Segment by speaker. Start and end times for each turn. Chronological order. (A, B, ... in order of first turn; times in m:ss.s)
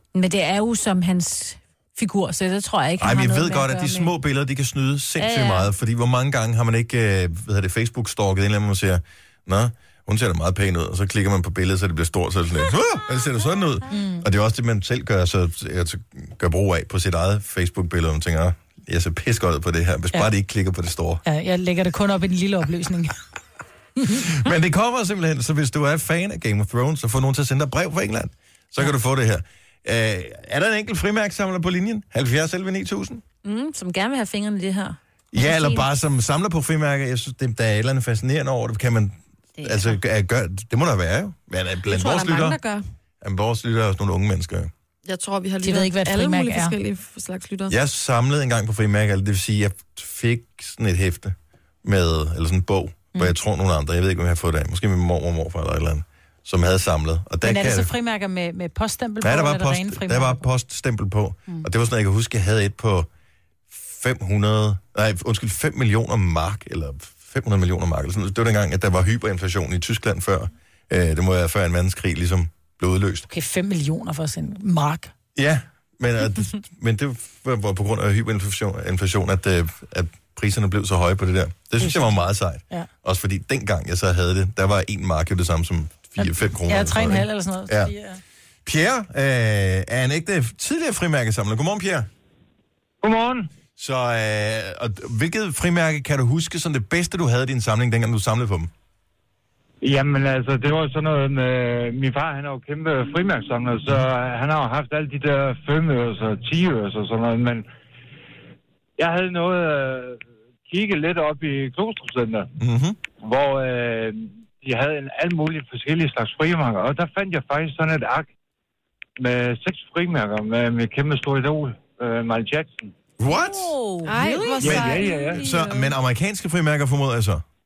0:00.1-0:04.1 A
0:03.0-0:21.2 B
0:05.2-0:05.7 A
0:13.9-0:14.2 C
0:21.2-0:23.1 C
0:24.0-0:33.2 B
0:33.4-0:35.8 A
0:35.3-0:42.6 B
0:39.6-0:40.0 A
0:41.9-0:42.8 D
0:43.2-0:44.7 B
0:45.0-0:47.7 D
0:45.6-0:46.8 C
0:47.7-0:57.9 B
0:57.4-1:00.4 C
0:59.2-1:03.1 B
1:03.7-1:13.3 B
1:13.3-1:15.1 C
1:15.4-1:27.9 B
1:21.8-1:22.2 C
1:26.2-1:28.2 C
1:28.6-1:32.1 B
1:33.0-1:33.5 E
1:33.8-1:38.7 B
1:39.8-1:47.6 E
1:49.0-1:52.5 E
1:52.6-1:53.0 B
1:53.2-1:58.3 E
1:59.2-2:02.9 E
2:03.2-2:03.8 B
2:03.3-2:05.9 A
2:04.0-2:05.3 D
2:04.6-2:05.4 E
2:04.6-2:07.4 B